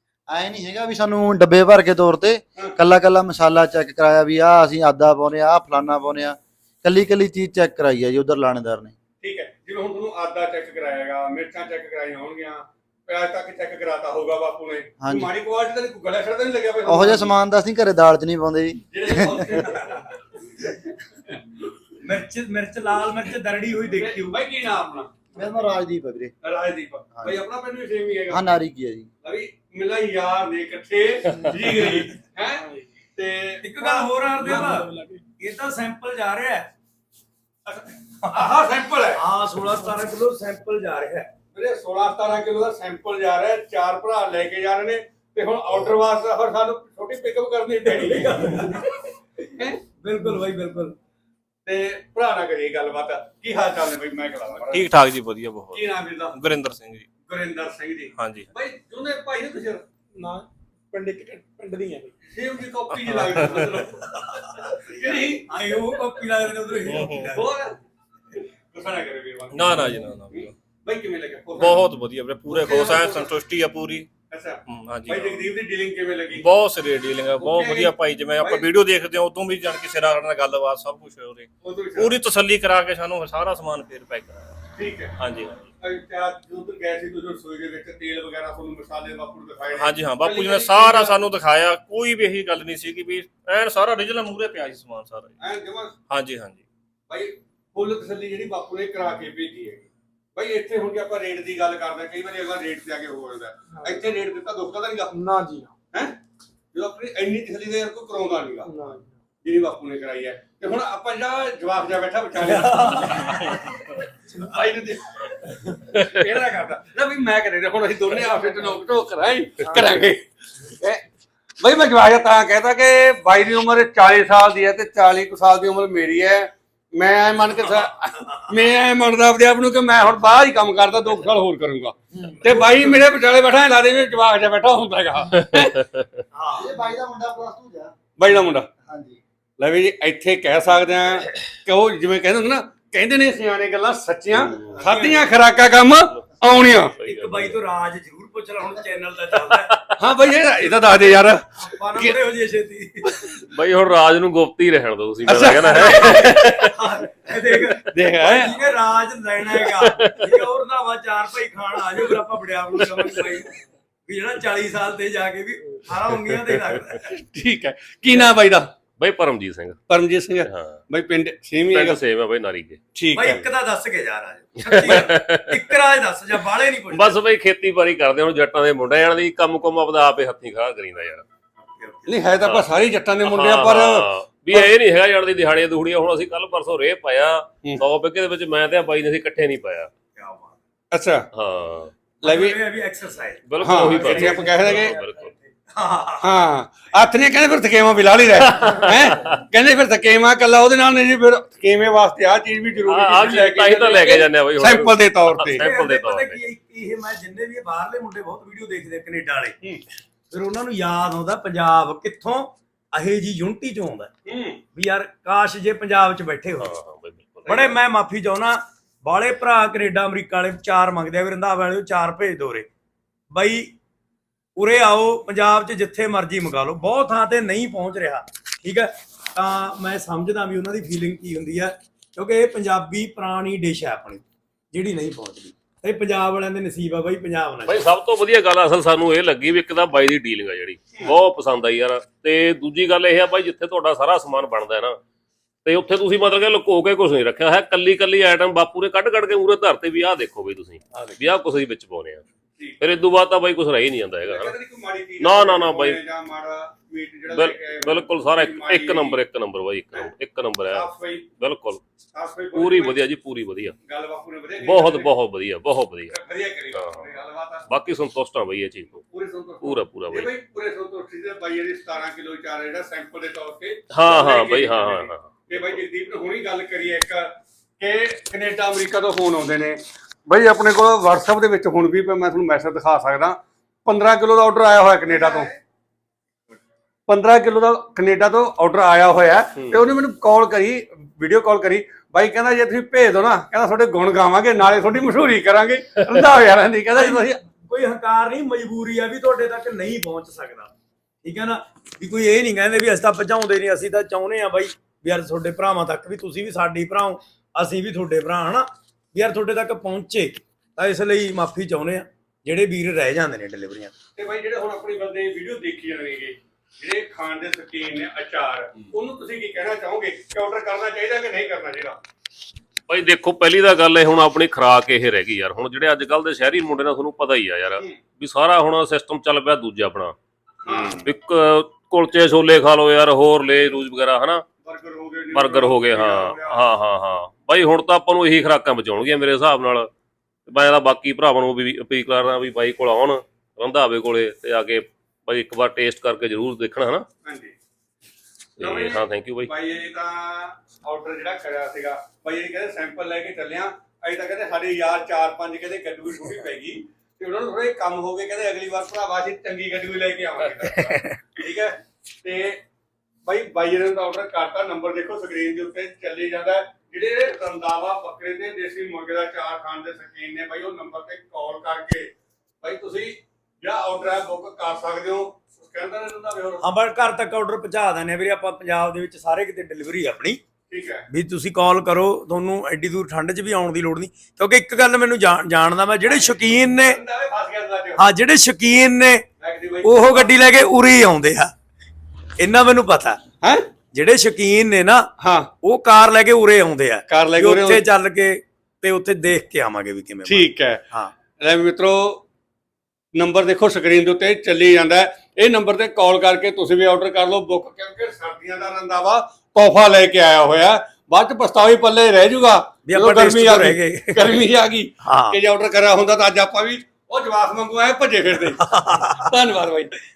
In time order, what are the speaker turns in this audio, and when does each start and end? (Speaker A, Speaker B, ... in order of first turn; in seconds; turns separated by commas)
Speaker A: 0.3-8.9, Speaker B: 9.2-17.4, Speaker A: 15.0-15.3, Speaker A: 16.8-19.6, Speaker B: 18.9-20.8, Speaker C: 22.0-24.4, Speaker B: 23.9-25.4, Speaker A: 25.3-26.3, Speaker B: 26.4-28.5, Speaker A: 27.1-27.4, Speaker A: 28.3-29.1, Speaker B: 29.2-34.1, Speaker D: 31.4-32.0, Speaker D: 32.6-32.9, Speaker C: 33.6-36.7, Speaker D: 34.4-35.2, Speaker B: 37.7-39.2, Speaker C: 39.1-41.3, Speaker B: 41.5-48.8, Speaker C: 47.8-49.0, Speaker B: 49.5-49.8, Speaker C: 50.0-50.9, Speaker B: 51.6-54.9, Speaker E: 54.7-57.1, Speaker B: 55.7-56.4, Speaker B: 57.2-59.8, Speaker E: 58.2-58.5, Speaker D: 60.1-62.1, Speaker B: 62.2-65.6, Speaker E: 62.9-63.8, Speaker C: 63.9-67.5, Speaker E: 66.8-67.4, Speaker B: 67.3-67.8, Speaker B: 68.7-71.8, Speaker E: 69.5-70.5, Speaker E: 71.6-74.1, Speaker B: 72.5-73.3, Speaker B: 74.3-76.5, Speaker E: 74.7-75.4, Speaker E: 76.4-84.6, Speaker B: 77.4-78.7, Speaker B: 81.6-82.2, Speaker B: 84.7-85.1, Speaker E: 85.2-85.7, Speaker B: 85.8-91.2, Speaker E: 89.8-95.3, Speaker B: 95.4-95.9, Speaker E: 96.1-96.6, Speaker B: 97.1-105.1, Speaker D: 103.7-104.0, Speaker D: 105.1-105.7, Speaker B: 105.9-106.2, Speaker B: 106.7-108.7, Speaker D: 108.7-109.2, Speaker B: 109.4-113.5, Speaker C: 112.4-114.0, Speaker B: 114.3-121.0, Speaker B: 121.6-135.8, Speaker C: 132.2-132.8, Speaker F: 135.5-136.0, Speaker C: 136.3-136.8, Speaker A: 136.5-137.9, Speaker B: 138.2-138.7, Speaker A: 138.7-139.2, Speaker B: 139.6-146.9, Speaker C: 144.7-145.3, Speaker F: 146.6-147.6, Speaker C: 147.0-149.8, Speaker F: 149.7-149.9, Speaker B: 150.0-152.1, Speaker C: 151.6-153.3, Speaker F: 153.3-156.7, Speaker B: 155.2-156.3, Speaker C: 155.8-167.1, Speaker B: 157.8-158.6, Speaker F: 159.6-160.4, Speaker F: 162.8-163.2, Speaker B: 167.0-168.7, Speaker F: 169.0-169.8, Speaker B: 169.9-172.0, Speaker F: 170.4-170.8, Speaker F: 171.7-172.9, Speaker B: 172.9-173.4, Speaker C: 173.1-177.2, Speaker F: 174.7-175.6, Speaker F: 176.9-181.2, Speaker C: 181.6-182.1, Speaker B: 182.1-184.7, Speaker F: 183.2-189.9, Speaker C: 190.2-190.6, Speaker B: 190.9-191.3, Speaker F: 191.3-191.9, Speaker C: 192.2-196.3, Speaker B: 192.2-192.6, Speaker F: 193.4-195.3, Speaker B: 193.6-194.9, Speaker B: 196.2-205.7, Speaker F: 198.6-199.3, Speaker F: 202.9-206.4, Speaker C: 205.6-209.6, Speaker C: 210.3-214.1, Speaker B: 214.2-214.6, Speaker C: 214.7-216.7, Speaker F: 216.6-217.7, Speaker C: 217.4-222.7, Speaker C: 223.3-223.7, Speaker C: 224.6-237.9, Speaker F: 237.7-245.0, Speaker F: 245.6-252.2, Speaker C: 250.9-251.2, Speaker F: 252.8-254.5, Speaker B: 254.2-259.2, Speaker F: 255.2-256.0, Speaker F: 257.3-261.8, Speaker B: 260.7-261.3, Speaker B: 262.1-263.0, Speaker F: 262.5-263.7, Speaker B: 263.8-265.1, Speaker F: 264.6-266.1, Speaker B: 266.1-267.6, Speaker F: 266.7-267.1, Speaker F: 267.7-269.0, Speaker B: 269.1-285.5, Speaker F: 269.6-270.3, Speaker F: 273.9-275.6, Speaker B: 287.1-297.4, Speaker C: 296.9-300.7, Speaker C: 301.2-313.9, Speaker B: 314.1-322.0, Speaker F: 322.9-330.1, Speaker B: 330.6-331.0, Speaker F: 330.6-334.4, Speaker B: 334.6-336.6, Speaker F: 335.3-339.9, Speaker F: 340.5-347.1, Speaker B: 347.2-347.5, Speaker F: 348.6-349.5, Speaker B: 348.6-362.6, Speaker B: 363.2-376.6, Speaker C: 376.6-380.4, Speaker B: 380.7-381.0, Speaker C: 381.1-387.0, Speaker B: 386.0-388.0, Speaker C: 388.0-389.2, Speaker B: 389.4-390.4, Speaker C: 389.8-391.5, Speaker C: 392.4-393.2, Speaker B: 393.4-393.7, Speaker C: 393.9-395.1, Speaker B: 395.2-395.5, Speaker C: 395.6-401.1, Speaker B: 397.1-397.8, Speaker B: 400.2-400.8, Speaker B: 401.4-402.2, Speaker B: 403.1-420.0, Speaker C: 412.9-414.4, Speaker C: 415.0-415.4, Speaker C: 418.6-419.2